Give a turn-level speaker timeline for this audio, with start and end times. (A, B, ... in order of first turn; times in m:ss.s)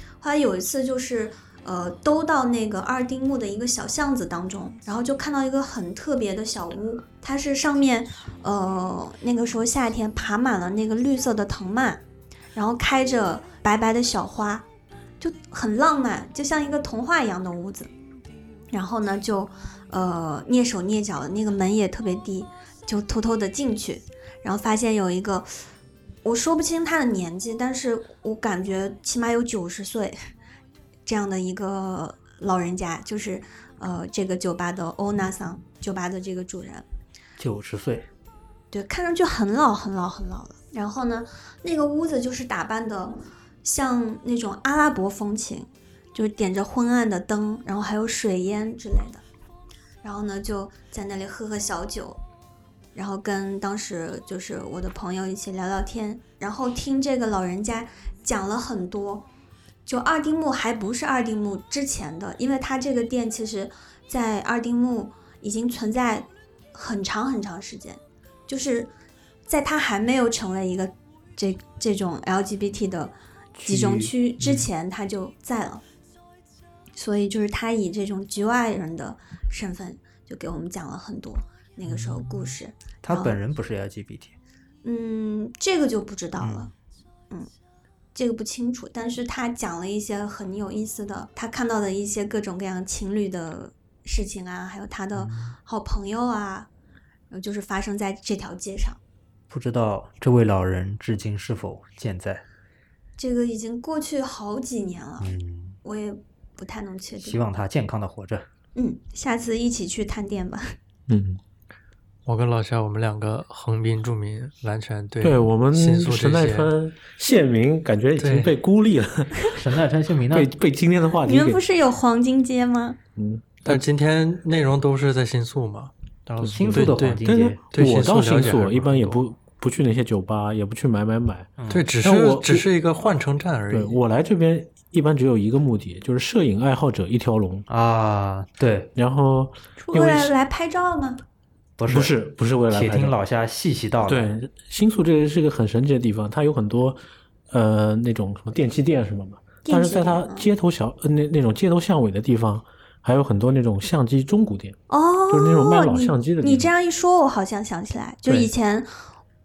0:00.2-0:12.0 A
0:12.6-0:14.7 A
0:15.2-0:17.9 A
0:18.7-0:25.5 A
0:26.2-0:30.2 A
0:31.1-0:36.8 A
0:37.4-0:38.1 B
0:38.7-0:49.2 A
0:50.0-0:52.2 A
0:53.0-0:59.3 A
0:59.9-1:08.9 A
1:09.5-1:15.8 A
1:13.6-1:14.7 B
1:17.0-1:23.4 A
1:21.9-1:24.4 B
1:24.8-1:26.7 A
1:26.4-1:26.7 B
1:28.2-1:36.7 A
1:35.2-1:35.6 B
1:37.3-1:39.0 A
1:39.5-1:42.4 B
1:43.2-1:47.4 A
1:45.2-1:45.8 B
1:47.2-1:48.5 B
1:48.8-1:50.8 A
1:51.1-1:51.4 C
1:52.3-1:56.7 D
1:55.2-1:59.6 C
1:58.2-1:58.6 D
1:59.5-2:00.5 B
2:00.3-2:01.6 C
2:01.2-2:03.0 A
2:03.2-2:03.9 C
2:03.6-2:09.2 D
2:06.4-2:07.6 B
2:06.4-2:11.5 C
2:11.6-2:11.9 B
2:11.7-2:14.0 D
2:12.0-2:12.7 C
2:13.7-2:17.7 C
2:17.7-2:18.9 B
2:19.0-2:20.3 C
2:19.8-2:21.2 A
2:21.8-2:22.2 B
2:21.9-2:23.2 C
2:22.7-2:24.3 B
2:24.1-2:34.8 C
2:29.6-2:30.5 A
2:34.9-2:38.9 A
2:35.3-2:36.7 C
2:38.3-2:38.5 C